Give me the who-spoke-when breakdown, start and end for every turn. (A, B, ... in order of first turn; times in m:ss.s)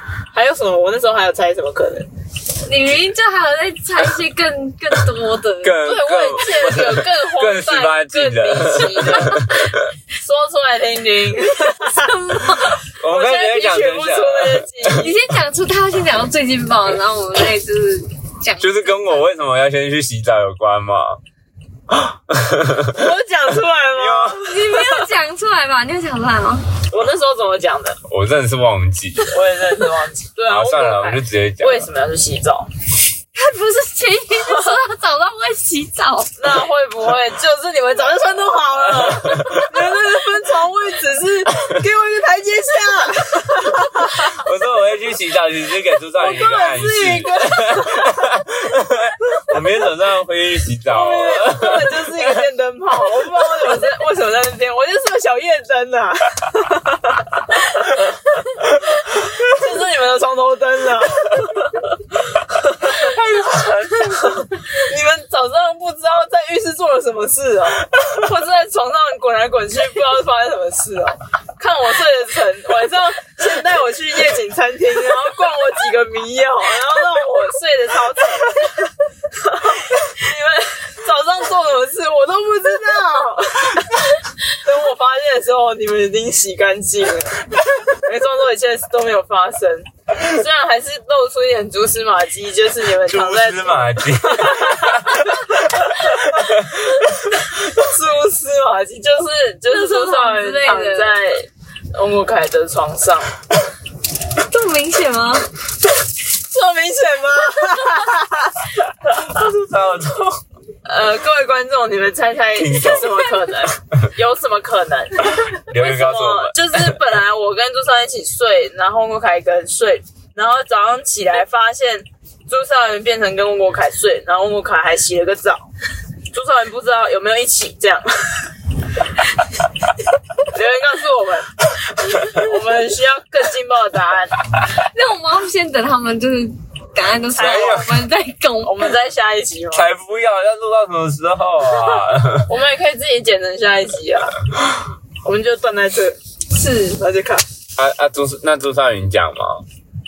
0:00.3-0:02.1 A
0:02.6-0:05.8 B
0:05.6-0:09.7 C
0:05.8-0:09.5 A
0:10.2-0:12.5 A
0:11.8-0:12.8 B
0:12.9-0:15.1 C
0:13.0-0:15.2 A
0:14.9-0:19.2 B
0:18.6-0:21.2 C
0:21.9-0:23.1 C
0:22.9-0:25.0 A
0:23.9-0:24.4 C
0:24.4-0:26.7 B
0:26.9-0:28.0 A
0:28.1-0:29.4 C
0:29.3-0:32.7 A
0:30.5-0:31.9 C
0:33.3-0:36.3 B
0:34.5-0:34.8 A
0:36.4-0:44.4 A
0:39.2-0:39.6 C
0:44.2-0:52.3 C
0:46.1-0:48.2 A
0:50.9-1:03.2 A
1:03.1-1:04.3 C
1:04.0-1:36.7 A
1:33.0-1:35.5 C
1:36.2-1:37.3 C
1:37.3-1:43.4 A
1:39.7-1:41.2 B
1:44.4-1:45.5 B
1:46.4-1:49.3 A
1:49.1-1:50.4 C
1:50.8-2:05.6 A
1:52.5-1:53.2 C
1:52.9-1:53.2 B
1:55.5-1:57.0 C
2:06.3-2:08.5 A
2:10.4-2:14.4 A
2:14.7-2:18.9 B
2:17.3-2:18.0 A
2:17.4-2:18.1 C
2:18.6-2:19.9 A
2:19.7-2:22.5 C
2:22.4-2:24.4 A
2:25.2-2:26.2 A
2:26.5-2:26.9 B
2:26.8-2:27.4 A
2:27.8-2:29.6 C